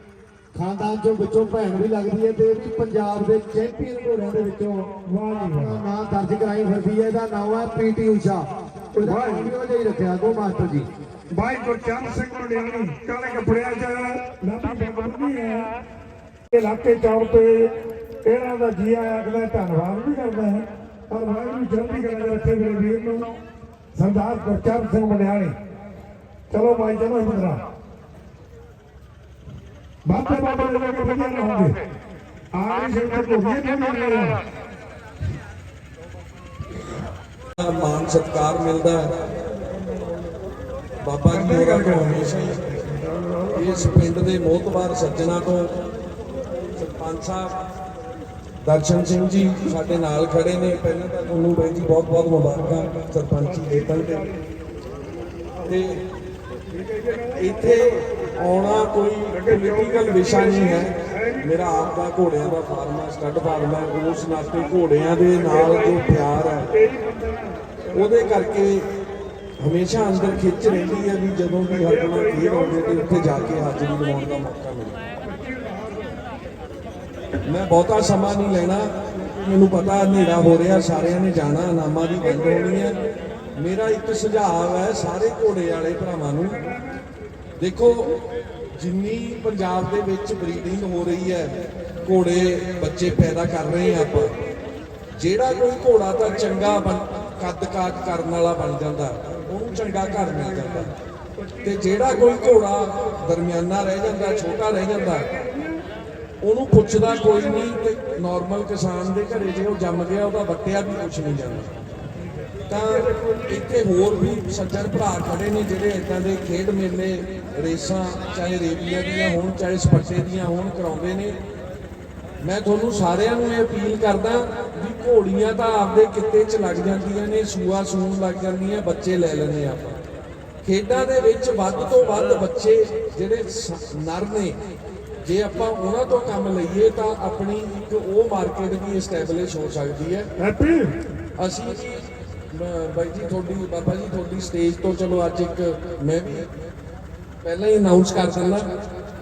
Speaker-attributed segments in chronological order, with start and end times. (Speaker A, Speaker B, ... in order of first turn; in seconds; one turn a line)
Speaker A: 0.5-4.9
Speaker B: 5.0-5.8
Speaker A: 5.4-10.9
Speaker B: 9.0-9.5
Speaker B: 11.3-15.7
Speaker B: 16.5-17.7
Speaker B: 18.2-23.3
Speaker B: 23.9-25.5
Speaker B: 26.5-27.6
Speaker B: 30.0-31.7
Speaker B: 32.5-34.4
Speaker C: 37.6-39.0
Speaker C: 41.0-42.6
Speaker B: 41.3-42.2
Speaker C: 43.5-45.7
Speaker C: 46.8-47.5
Speaker C: 48.6-54.3
Speaker C: 57.3-66.7
Speaker B: 59.4-61.4
Speaker B: 65.4-66.0
Speaker B: 66.7-67.6
Speaker C: 67.9-68.8
Speaker C: 69.6-75.0
Speaker B: 71.8-73.0
Speaker B: 75.3-76.0
Speaker C: 77.5-83.0
Speaker C: 83.5-86.7
Speaker C: 87.6-88.2
Speaker C: 88.7-94.3
Speaker C: 95.1-100.9
Speaker C: 101.6-105.3
Speaker C: 106.4-111.7
Speaker C: 112.7-121.4
Speaker C: 122.4-130.0
Speaker C: 130.6-134.5
Speaker C: 135.2-140.3
Speaker B: 140.4-141.0
Speaker C: 141.4-146.5
Speaker C: 147.4-148.7